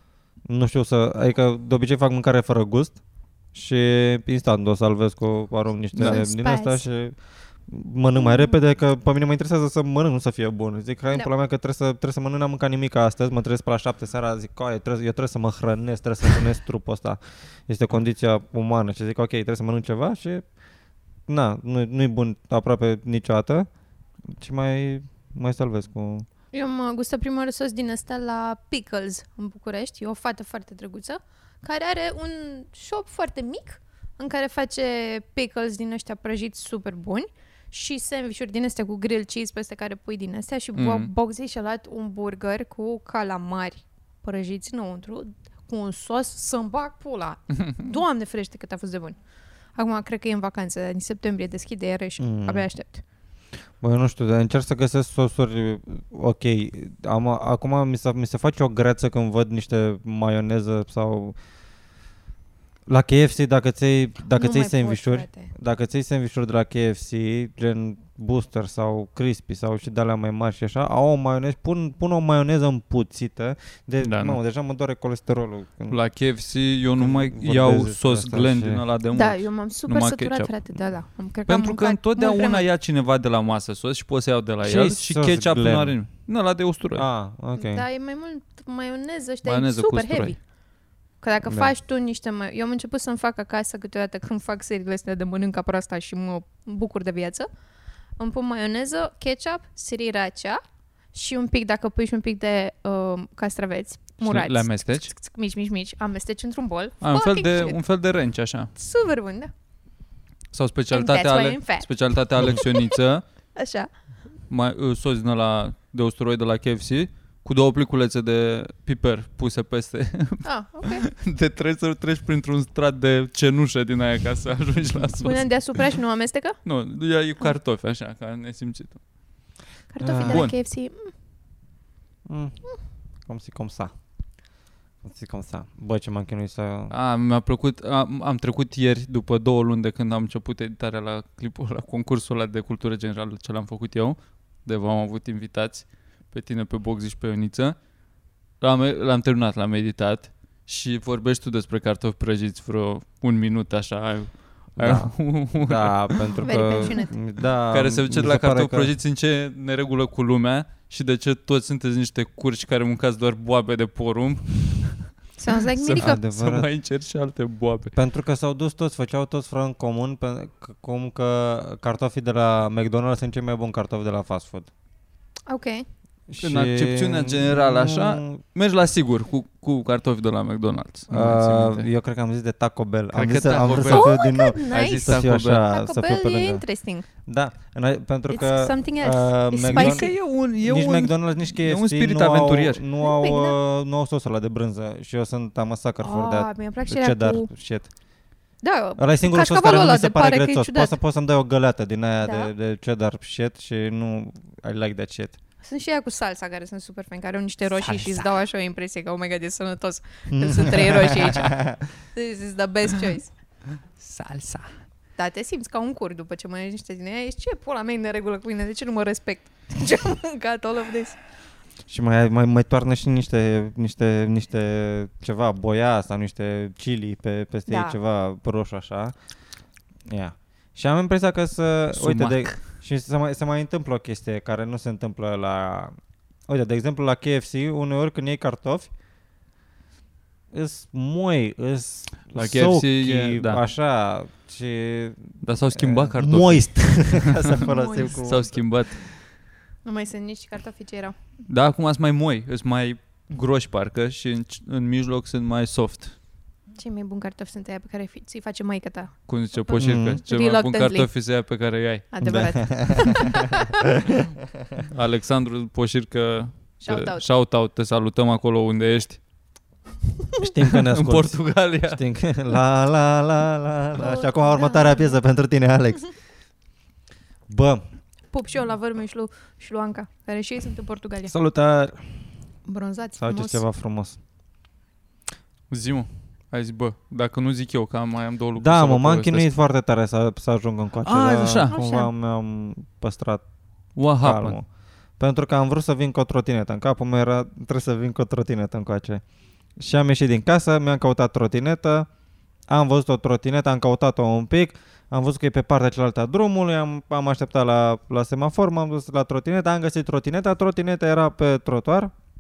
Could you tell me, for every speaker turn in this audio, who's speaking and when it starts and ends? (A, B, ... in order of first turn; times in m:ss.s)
0:00.5-0:03.0 A
0:03.5-0:20.4 A
0:05.9-0:06.2 B
0:06.0-0:06.8 C
0:21.3-0:23.7 A
0:24.3-0:26.3 A
0:26.5-0:49.2 C
0:40.8-0:41.1 B
0:49.8-0:53.0 C
0:52.2-0:52.7 A
0:53.8-1:01.4 A
1:02.9-1:16.0 A
1:04.4-1:05.5 C
1:14.0-1:14.4 B
1:15.9-1:20.8 B
1:17.0-1:18.8 A
1:19.1-1:22.7 C
1:21.5-1:27.1 B
1:24.6-1:26.0 A
1:27.0-1:27.8 A
1:27.6-1:30.4 C
1:29.4-1:30.4 B
1:31.2-1:37.5 C
1:31.5-1:31.7 A
1:38.2-1:40.6 C
1:41.1-1:47.8 C
1:44.2-1:45.1 B
1:47.0-1:48.7 B
1:48.8-1:49.5 C
1:50.5-1:53.2 B
1:50.9-1:51.9 C
1:52.4-1:52.8 C
1:53.6-1:53.9 C
1:54.5-2:05.5 B
2:00.4-2:01.1 C
2:05.2-2:06.6 C
2:06.6-2:09.0 B
2:09.9-2:11.1 C
2:10.0-2:10.5 A
2:10.2-2:10.6 B
2:12.3-2:12.6 A
2:13.3-2:13.9 A
2:15.0-2:16.9 A
2:16.9-2:27.8 B
2:28.6-2:36.3 B
2:34.8-2:38.9 A
2:36.4-2:37.1 C
2:37.7-2:45.1 B
2:45.4-2:46.2 C
2:45.7-2:47.9 B
2:46.0-2:46.7 A
2:47.9-2:54.7 A
2:55.5-2:55.9 C
2:56.3-2:58.4 A
2:56.4-3:01.9 B
3:01.1-3:06.6 A
3:03.1-3:04.2 B
3:03.8-3:07.1 C
3:04.7-3:05.6 B
3:07.2-3:17.9 A
3:08.3-3:10.2 C
3:09.7-3:12.8 B
3:13.0-3:13.6 C
3:16.0-3:17.5 C
3:18.6-3:21.0 C
3:19.0-3:25.4 A
3:22.2-3:22.5 C
3:25.6-3:33.3 C
3:27.9-3:28.1 B
3:30.3-3:31.8 A
3:34.0-3:34.7 B
3:35.2-3:41.2 C
3:41.9-3:49.1 A
3:47.7-3:48.0 C
3:50.1-3:55.9 A
3:51.9-3:52.6 B
3:56.5-3:58.9 A
4:00.5-4:08.8 A
4:02.3-4:03.6 B
4:05.4-4:09.1 B
4:07.6-4:08.2 C
4:09.8-4:11.2 C
4:11.5-4:16.2 B
4:16.8-4:21.1 C
4:19.3-4:22.1 B
4:19.8-4:20.2 A
4:22.1-4:23.8 C
4:22.2-4:24.2 A
4:24.9-4:29.2 B
4:26.8-4:27.2 C
4:30.4-4:36.1 A
4:30.7-4:32.0 B
4:34.0-4:35.2 C
4:37.5-4:37.8 A
4:38.3-4:41.3 C
4:41.3-4:42.1 A
4:42.7-4:43.6 C
4:43.2-4:44.2 A
4:45.7-4:49.5 B
4:48.6-4:53.4 A
4:51.0-4:51.7 B
4:51.7-4:52.1 C
4:54.0-4:54.6 B
4:54.2-4:54.6 A
4:55.2-4:59.2 A
4:59.8-5:02.1 A
5:02.7-5:12.1 A